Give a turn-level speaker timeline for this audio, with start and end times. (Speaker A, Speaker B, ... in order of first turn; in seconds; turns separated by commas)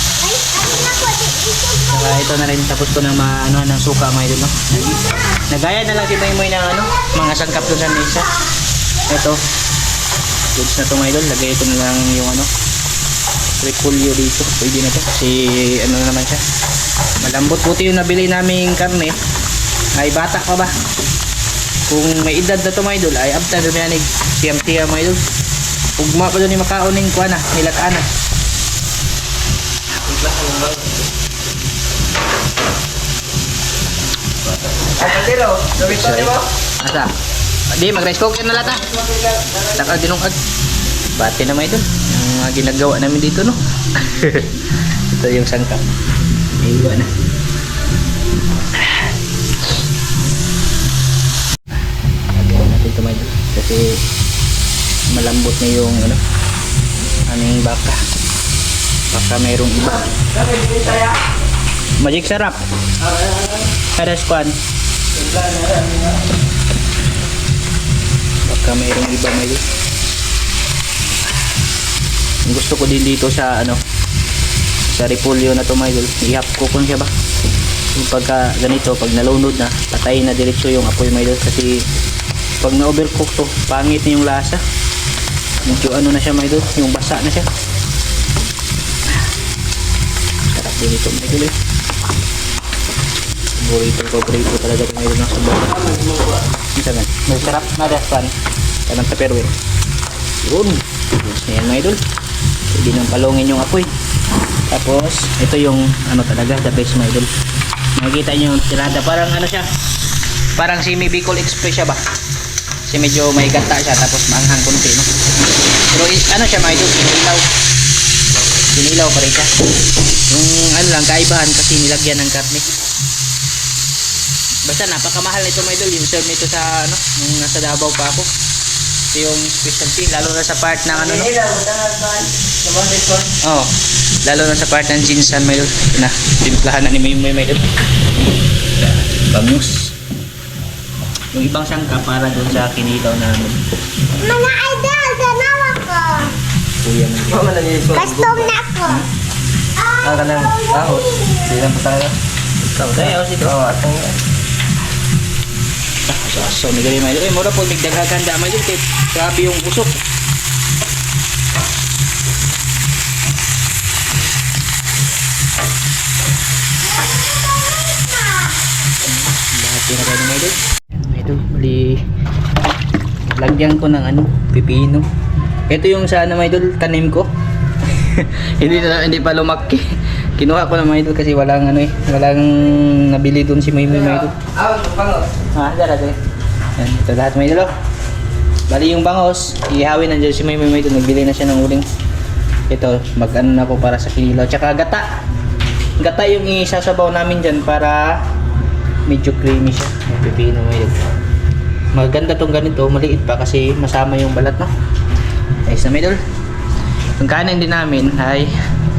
Speaker A: 0.2-2.3, Speaker B: 1.9-8.3, Speaker B: 9.1-9.4, Speaker B: 10.6-12.5, Speaker B: 13.6-16.4, Speaker B: 17.2-19.1, Speaker B: 20.0-20.7, Speaker B: 21.9-25.2, Speaker B: 26.0-28.1, Speaker C: 30.0-31.1, Speaker C: 35.0-36.5, Speaker B: 35.8-37.1, Speaker B: 37.7-38.8, Speaker C: 38.7-40.0, Speaker B: 39.8-40.4, Speaker B: 41.1-44.5, Speaker B: 45.1-45.9, Speaker B: 46.6-47.1, Speaker B: 52.3-54.0, Speaker B: 55.1-56.2, Speaker B: 57.3-58.0, Speaker B: 59.1-60.1, Speaker C: 60.3-61.2, Speaker B: 62.0-62.6, Speaker C: 63.0-63.7, Speaker B: 63.9-64.6, Speaker C: 65.1-66.2, Speaker B: 68.5-69.6, Speaker B: 72.5-73.8, Speaker B: 74.9-77.1, Speaker B: 78.0-81.9, Speaker B: 82.6-84.6, Speaker B: 85.6-87.5, Speaker B: 90.5-91.5, Speaker B: 93.6-95.8, Speaker C: 95.6-96.5, Speaker B: 96.8-98.3, Speaker B: 98.9-99.5, Speaker B: 100.4-102.0, Speaker B: 102.7-103.9, Speaker B: 104.7-107.3, Speaker B: 108.0-109.7, Speaker B: 110.6-112.0, Speaker B: 112.9-115.1, Speaker B: 115.9-117.5, Speaker B: 118.7-119.5, Speaker B: 120.3-122.7, Speaker B: 124.7-128.3, Speaker B: 129.1-131.3, Speaker C: 130.9-133.3, Speaker B: 133.4-133.7, Speaker B: 134.2-137.6, Speaker B: 138.8-140.0, Speaker B: 141.3-143.6, Speaker A: 144.2-146.3, Speaker B: 146.8-147.5, Speaker C: 147.3-148.6, Speaker A: 147.9-149.1, Speaker A: 149.8-151.6, Speaker C: 150.0-152.2, Speaker B: 152.7-153.6, Speaker C: 152.9-154.2, Speaker B: 156.1-160.0, Speaker A: 167.7-168.1, Speaker B: 169.4-172.0, Speaker B: 173.3-175.1, Speaker B: 175.7-177.3, Speaker B: 177.9-179.9, Speaker B: 180.4-184.3, Speaker C: 183.9-185.3, Speaker B: 185.6-186.2, Speaker B: 186.8-187.7, Speaker B: 188.7-191.9, Speaker B: 192.7-195.1, Speaker B: 196.0-198.2, Speaker B: 199.1-201.0, Speaker B: 201.9-204.7, Speaker B: 205.7-206.2, Speaker B: 207.2-208.5